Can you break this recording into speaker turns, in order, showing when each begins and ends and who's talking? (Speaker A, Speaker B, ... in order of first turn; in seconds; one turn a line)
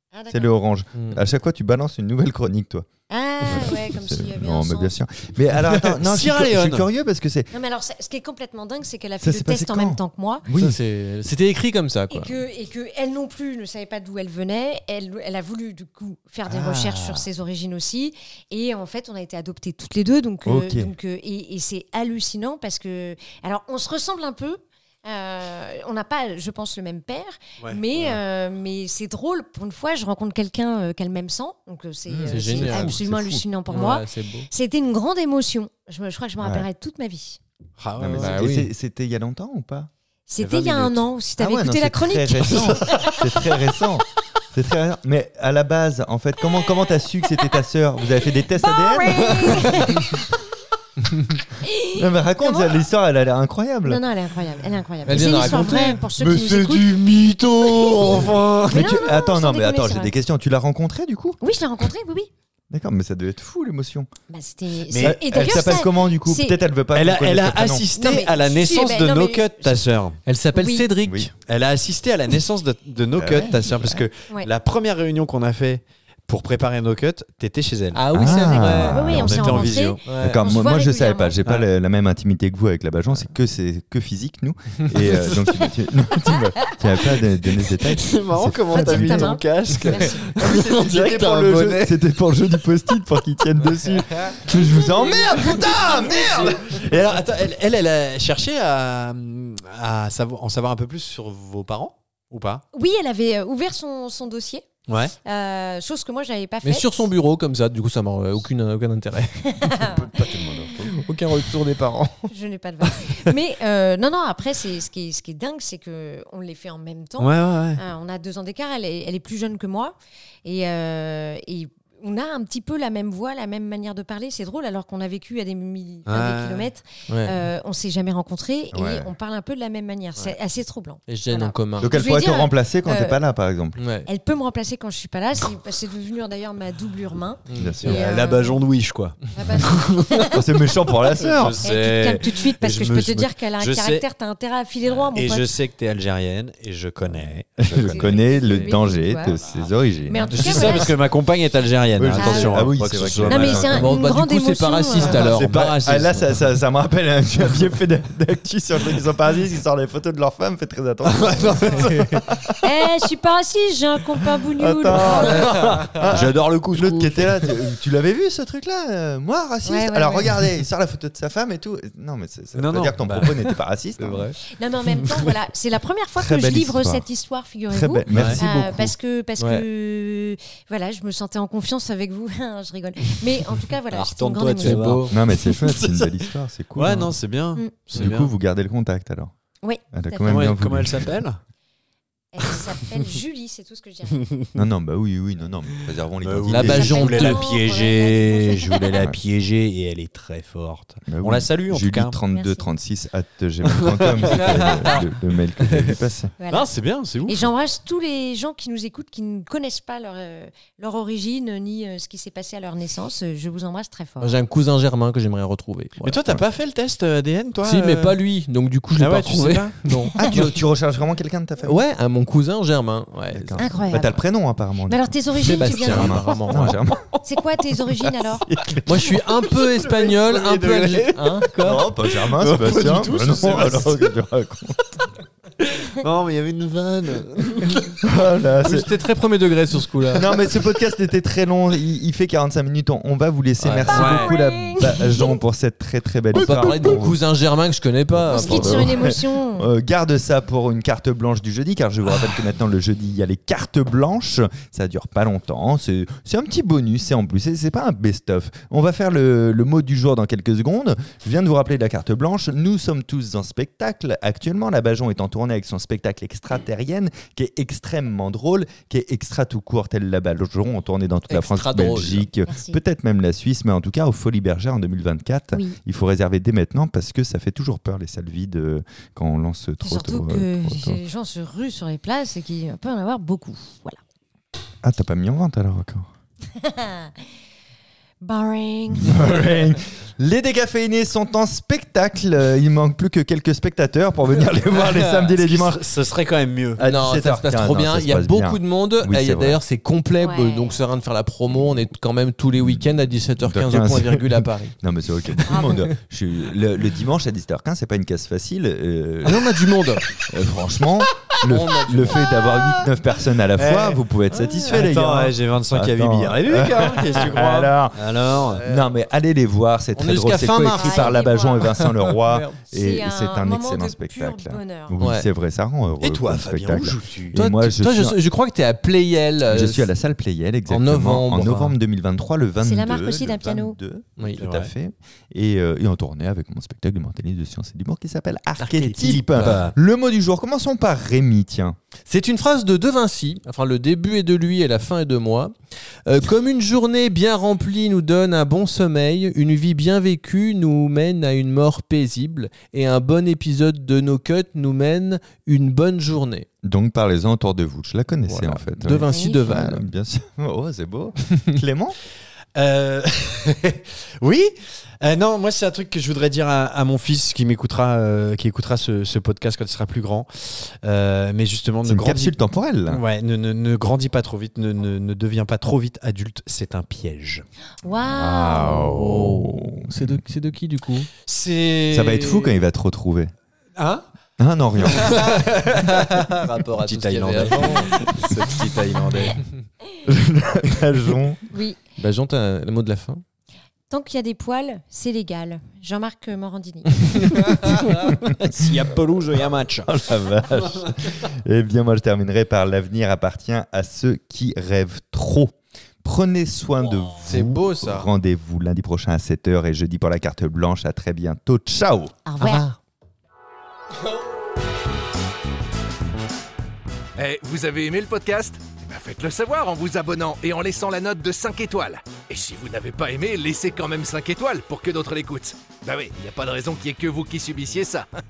Speaker A: 0.1-0.5
Speaker B: 0.3-2.9
Speaker C: 0.9-1.2
Speaker A: 3.1-4.9
Speaker B: 3.4-7.5
Speaker D: 6.0-6.9
Speaker A: 7.5-10.4
Speaker B: 9.2-10.8
Speaker C: 10.6-12.3
Speaker A: 12.1-37.4
Speaker B: 16.4-17.2
Speaker B: 20.4-20.9
Speaker D: 27.6-28.2
Speaker B: 32.1-33.4
Speaker C: 32.3-33.0
Speaker C: 33.7-34.5
Speaker B: 36.4-36.7
Speaker D: 37.8-38.4
Speaker B: 38.0-39.9
Speaker C: 38.2-38.7
Speaker A: 40.3-43.5
Speaker D: 40.4-41.1
Speaker B: 41.4-50.2
Speaker A: 48.5-50.2
Speaker A: 51.6-52.8
Speaker B: 51.9-54.0
Speaker A: 53.8-57.0
Speaker C: 55.0-56.0
Speaker B: 55.1-55.5
Speaker B: 56.2-57.0
Speaker D: 56.2-59.1
Speaker B: 57.6-61.4
Speaker A: 58.7-60.1
Speaker A: 61.4-62.3
Speaker B: 62.7-64.1
Speaker A: 64.3-66.6
Speaker D: 64.9-65.8
Speaker B: 65.0-67.9
Speaker D: 66.9-70.2
Speaker A: 67.9-69.8
Speaker C: 70.2-71.3
Speaker A: 70.5-70.9
Speaker B: 71.0-71.3
Speaker D: 71.5-78.0
Speaker B: 73.2-74.0
Speaker C: 77.9-79.1
Speaker B: 78.1-97.1
Speaker A: 78.2-81.4
Speaker D: 78.6-80.0
Speaker C: 80.0-80.4
Speaker A: 86.3-86.8
Speaker D: 87.8-92.0
Speaker A: 88.7-90.3
Speaker C: 89.7-90.1
Speaker C: 93.8-94.3
Speaker A: 94.5-96.5
Speaker D: 95.3-102.6
Speaker A: 102.7-104.7
Speaker D: 104.9-105.1
Speaker A: 105.2-107.1
Speaker C: 106.6-109.7
Speaker A: 109.6-110.4
Speaker B: 109.8-111.1
Speaker C: 110.8-112.3
Speaker A: 112.3-133.2
Speaker D: 117.2-117.8
Speaker D: 126.0-126.7
Speaker C: 127.1-127.3
Speaker B: 128.7-129.1
Speaker C: 131.1-131.9
Speaker B: 131.8-133.8
Speaker C: 133.8-134.1
Speaker A: 134.1-138.6
Speaker C: 137.5-137.8
Speaker B: 137.6-138.1
Speaker D: 137.8-140.4
Speaker A: 139.3-140.4
Speaker B: 140.2-141.6
Speaker D: 141.1-144.0
Speaker A: 141.6-145.5
Speaker D: 144.8-148.8
Speaker B: 147.6-151.0
Speaker A: 147.7-149.4
Speaker D: 149.3-149.7
Speaker A: 150.1-150.9
Speaker D: 150.3-153.9
Speaker B: 152.0-153.9
Speaker A: 152.2-152.7
Speaker A: 153.2-155.2
Speaker C: 153.7-155.8
Speaker B: 155.0-162.5
Speaker D: 155.0-156.3
Speaker D: 161.0-162.5
Speaker C: 161.8-162.2
Speaker A: 162.6-165.5
Speaker B: 164.6-174.3
Speaker D: 164.9-167.4
Speaker C: 165.2-166.0
Speaker A: 169.6-170.4
Speaker D: 172.5-173.6
Speaker C: 174.0-174.3
Speaker A: 174.5-185.0
Speaker B: 176.2-177.1
Speaker B: 177.7-178.9
Speaker D: 178.1-178.4
Speaker C: 179.4-179.7
Speaker D: 183.9-188.3
Speaker C: 184.6-185.1
Speaker B: 185.1-187.1
Speaker B: 187.9-189.3
Speaker A: 189.6-190.4
Speaker B: 189.9-191.2
Speaker D: 190.2-191.4
Speaker A: 192.3-194.3
Speaker D: 194.1-194.5
Speaker B: 194.5-197.0
Speaker D: 196.2-202.2
Speaker C: 196.5-197.5
Speaker A: 196.7-198.9
Speaker B: 201.1-206.3
Speaker A: 202.3-202.7
Speaker D: 203.7-204.7
Speaker C: 204.3-205.0
Speaker C: 205.6-206.0
Speaker A: 206.4-206.7
Speaker D: 206.5-207.5
Speaker A: 207.2-214.3
Speaker C: 214.2-216.2
Speaker D: 216.0-218.2
Speaker C: 217.6-220.6
Speaker D: 219.0-220.1
Speaker B: 220.2-221.8
Speaker C: 221.6-223.8
Speaker B: 223.3-227.0
Speaker A: 223.6-224.2
Speaker A: 224.9-226.4
Speaker C: 225.4-226.8
Speaker D: 226.5-226.8
Speaker A: 227.2-228.5
Speaker B: 228.4-229.1
Speaker C: 228.8-231.9
Speaker D: 229.0-234.1
Speaker B: 231.6-234.8
Speaker D: 235.6-237.9
Speaker B: 238.0-238.9
Speaker C: 238.6-240.3
Speaker B: 240.1-247.2
Speaker C: 243.6-243.9
Speaker A: 243.8-245.4
Speaker D: 243.9-244.4
Speaker C: 246.3-249.1
Speaker B: 248.3-281.0
Speaker A: 248.3-249.7
Speaker C: 271.3-272.3
Speaker A: 272.5-272.8
Speaker A: 279.8-284.0
Speaker B: 284.8-286.1
Speaker A: 286.5-287.1
Speaker A: 288.2-289.4
Speaker B: 288.9-295.9
Speaker D: 294.9-296.8
Speaker B: 296.8-299.6
Speaker C: 296.8-304.8
Speaker A: 300.2-300.8
Speaker B: 301.5-301.9
Speaker B: 302.6-318.1
Speaker C: 305.3-305.9
Speaker A: 305.4-305.9
Speaker C: 309.2-310.1
Speaker C: 311.4-312.2
Speaker D: 313.5-314.0
Speaker C: 314.3-314.8
Speaker D: 314.6-318.6
Speaker B: 318.6-328.2
Speaker C: 319.9-322.6
Speaker A: 320.7-321.7
Speaker A: 322.7-325.0
Speaker C: 325.0-325.3
Speaker D: 326.0-327.4
Speaker C: 327.3-329.9
Speaker B: 329.5-341.8
Speaker C: 330.7-331.7
Speaker A: 332.6-333.8
Speaker D: 334.4-334.7
Speaker D: 338.6-339.7
Speaker C: 338.6-339.7
Speaker C: 342.1-345.5
Speaker C: 346.0-356.5
Speaker B: 356.6-362.0
Speaker C: 358.3-359.8
Speaker A: 359.1-359.6
Speaker D: 362.6-372.3
Speaker B: 371.8-373.0
Speaker D: 372.9-377.4
Speaker A: 377.8-378.9
Speaker B: 378.0-380.2
Speaker C: 378.9-381.1
Speaker D: 381.2-382.6
Speaker B: 381.9-383.3
Speaker D: 383.8-384.1
Speaker B: 384.4-385.4
Speaker D: 384.8-389.4
Speaker C: 385.2-388.0
Speaker B: 390.1-391.4
Speaker A: 391.5-391.8
Speaker C: 392.0-393.2
Speaker A: 393.9-397.7
Speaker C: 397.3-397.9
Speaker B: 398.0-398.6
Speaker D: 398.2-400.1
Speaker B: 399.9-412.1
Speaker C: 407.2-408.1
Speaker A: 412.2-412.6
Speaker C: 412.4-412.8
Speaker E: 417.1-428.1